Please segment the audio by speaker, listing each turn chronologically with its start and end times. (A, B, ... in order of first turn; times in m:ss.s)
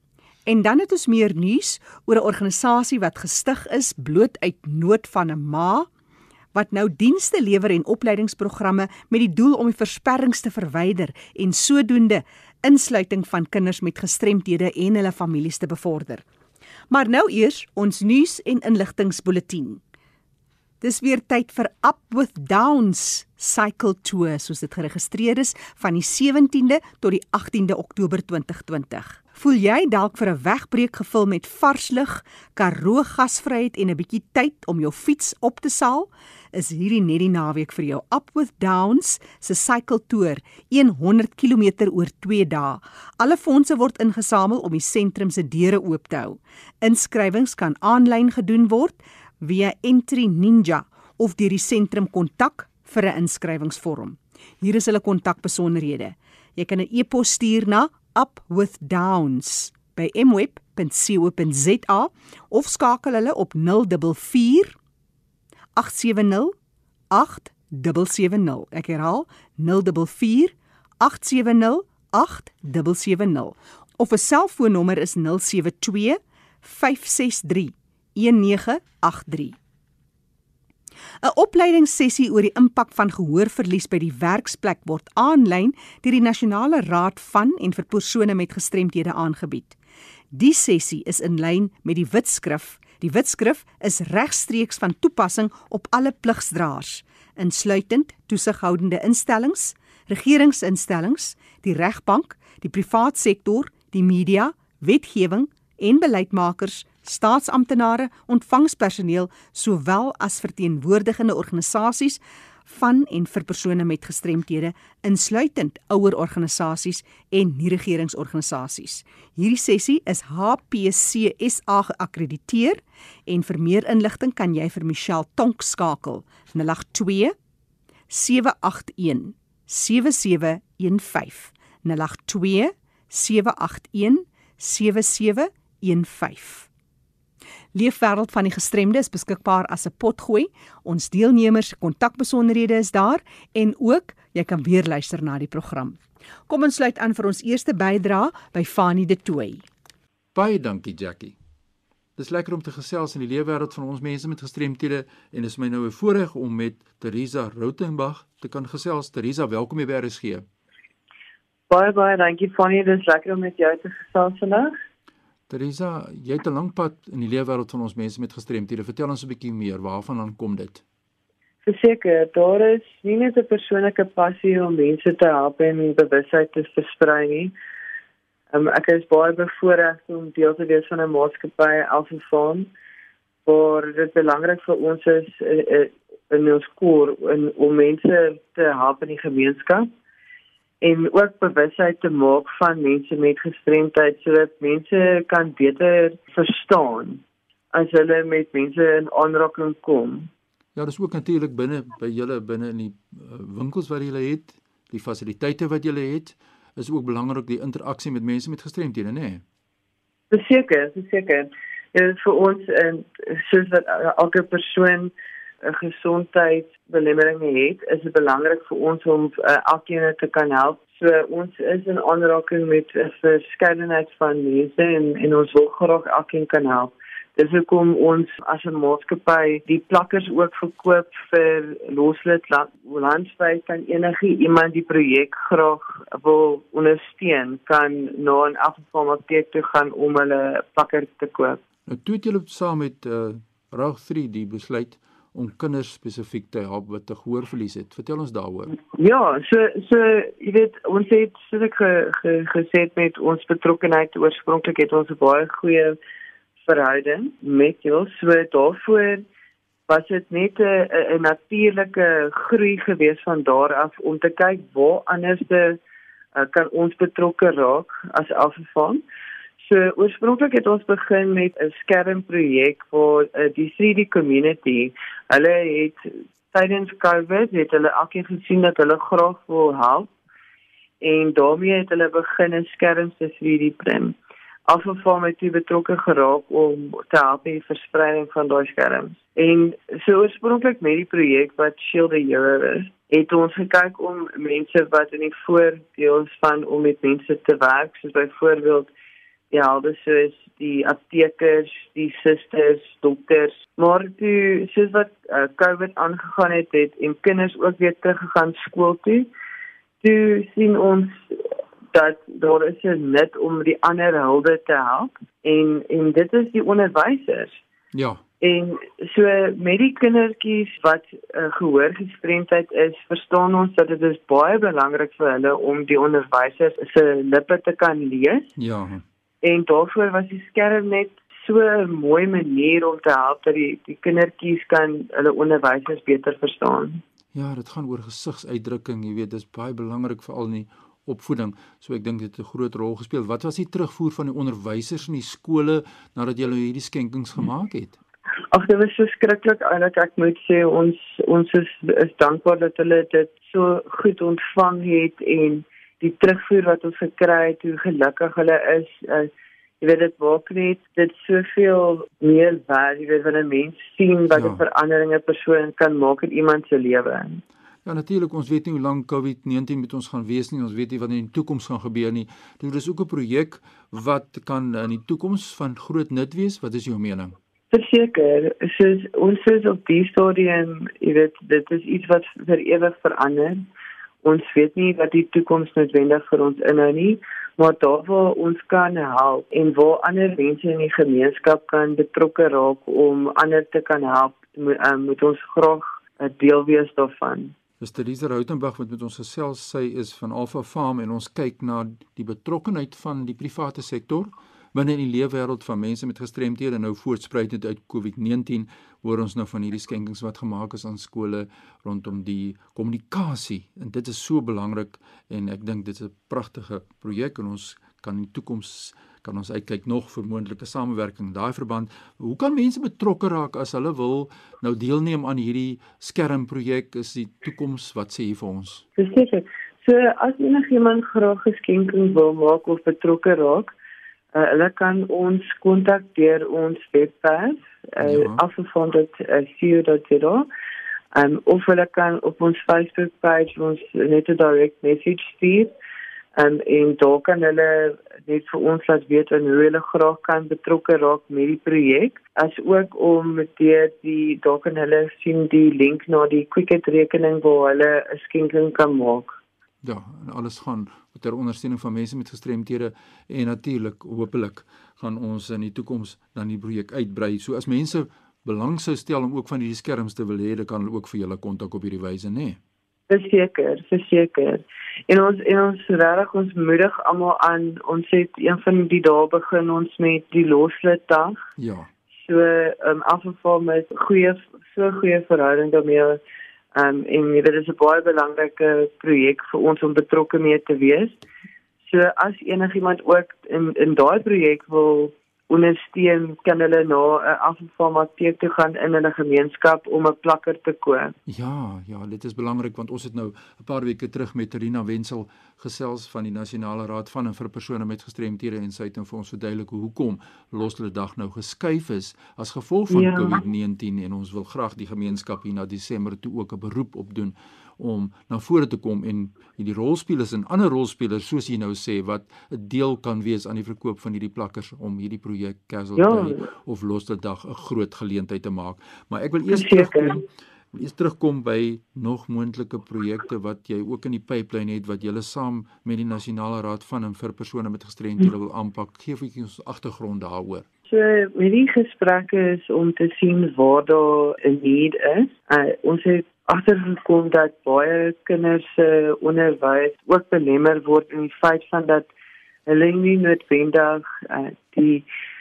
0:00.4-0:05.9 A
0:06.5-0:16.2 A
0:16.9-0:19.8 A
0:20.8-1:04.8 A
1:05.8-1:06.5 A
1:07.1-1:19.5 A
1:21.2-1:29.8 A
1:30.3-2:07.3 A
2:08.1-2:16.7 A
2:17.7-2:29.6 A
2:30.3-2:31.4 B
2:32.2-2:40.4 B
2:41.7-2:44.7 C
2:45.5-2:50.8 B
2:51.6-2:57.5 C
2:58.5-3:02.7 C
3:03.4-3:09.9 C
3:10.8-3:17.2 C
3:17.7-3:20.3 C
3:20.7-3:29.4 B
3:30.3-3:35.1 C
3:35.6-4:01.6 C
4:01.9-4:08.8 B
4:08.9-4:16.0 C
4:16.6-4:19.2 C
4:19.9-4:25.8 C
4:26.3-4:29.0 C
4:29.6-4:40.1 C
4:41.0-4:44.2 C
4:44.7-4:58.9 C
4:59.5-5:09.3 C
5:10.0-5:11.4 C
5:11.9-5:17.6 C
5:17.9-5:18.2 B
5:18.4-5:28.5 C
5:28.6-5:29.0 B
5:29.4-5:37.0 C
5:37.3-5:48.0 B
5:48.5-5:59.3 C
5:59.8-6:07.4 C
6:04.3-6:04.6 B
6:07.8-6:17.3 B
6:17.7-6:23.6 C
6:24.2-6:37.5 C
6:37.8-7:08.8 B
7:09.0-7:13.7 C
7:14.3-7:20.5 C
7:18.0-7:18.4 B
7:21.1-7:25.7 C
7:26.4-7:39.4 C
7:39.8-7:52.6 B
7:53.1-8:01.4 C
8:01.6-8:01.9 B
8:02.2-8:06.2 C
8:06.7-8:11.2 C
8:11.9-8:21.1 C
8:21.3-9:00.6 B
8:32.9-8:33.4 C
8:46.0-8:46.4 C
8:49.5-8:50.2 C
9:00.9-9:12.1 C
9:12.7-9:15.1 C